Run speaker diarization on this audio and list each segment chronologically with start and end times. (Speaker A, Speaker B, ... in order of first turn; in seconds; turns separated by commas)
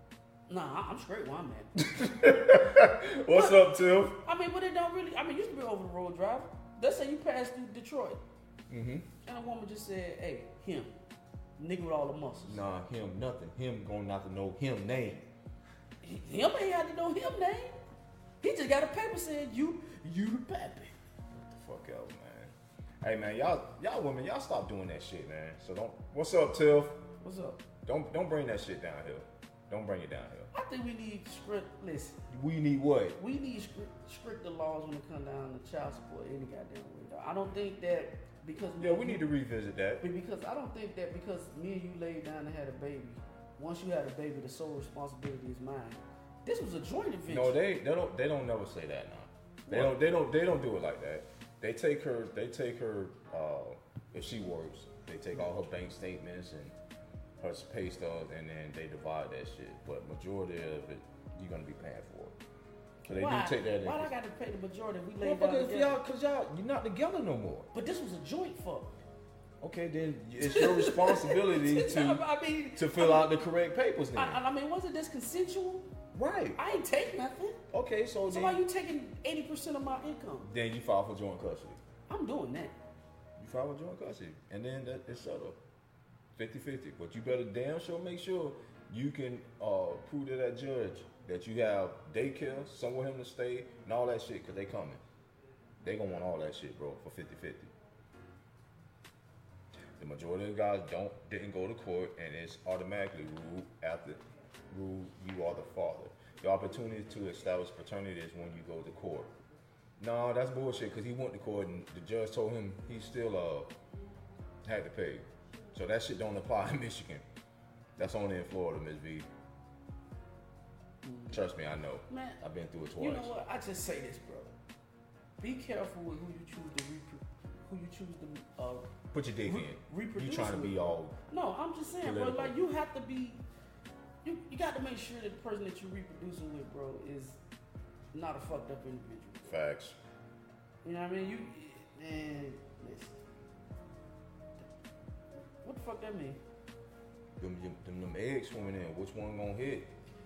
Speaker A: 0.5-1.8, Speaker B: 1.8-4.2, Speaker A: 3.3-3.7, Speaker A: 4.2-8.2, Speaker B: 8.7-9.1, Speaker A: 9.2-10.9, Speaker A: 11.6-12.6, Speaker B: 12.4-15.3, Speaker A: 16.0-17.8, Speaker A: 18.4-20.9, Speaker B: 21.3-27.0, Speaker A: 27.2-27.6, Speaker B: 27.8-30.5, Speaker A: 30.5-32.2, Speaker B: 32.3-33.2, Speaker A: 33.2-39.3, Speaker B: 38.8-40.0, Speaker A: 40.0-47.6, Speaker B: 47.3-56.7, Speaker A: 49.6-50.0, Speaker B: 57.4-62.3, Speaker B: 63.0-64.1, Speaker A: 63.0-66.0, Speaker B: 65.2-67.7, Speaker A: 67.7-68.9, Speaker B: 69.6-74.4, Speaker A: 70.4-73.3, Speaker A: 74.1-75.9, Speaker B: 76.1-76.6, Speaker A: 76.6-77.6, Speaker B: 77.7-78.6, Speaker A: 78.3-80.5, Speaker B: 80.4-81.8, Speaker A: 82.1-82.7, Speaker B: 83.4-85.6, Speaker B: 86.3-95.0, Speaker B: 95.8-97.7, Speaker B: 100.0-109.3, Speaker B: 110.0-113.7, Speaker B: 114.6-117.2, Speaker B: 118.0-119.3, Speaker A: 121.0-121.4, Speaker B: 121.3-123.4, Speaker A: 122.1-122.4, Speaker A: 123.0-124.5, Speaker A: 125.4-128.9, Speaker B: 129.1-131.1, Speaker A: 129.4-130.8, Speaker A: 131.3-133.4, Speaker B: 132.0-132.6, Speaker A: 134.2-137.4, Speaker A: 138.1-139.5, Speaker B: 139.4-140.0, Speaker A: 140.8-143.2, Speaker A: 145.6-146.4, Speaker B: 147.4-149.9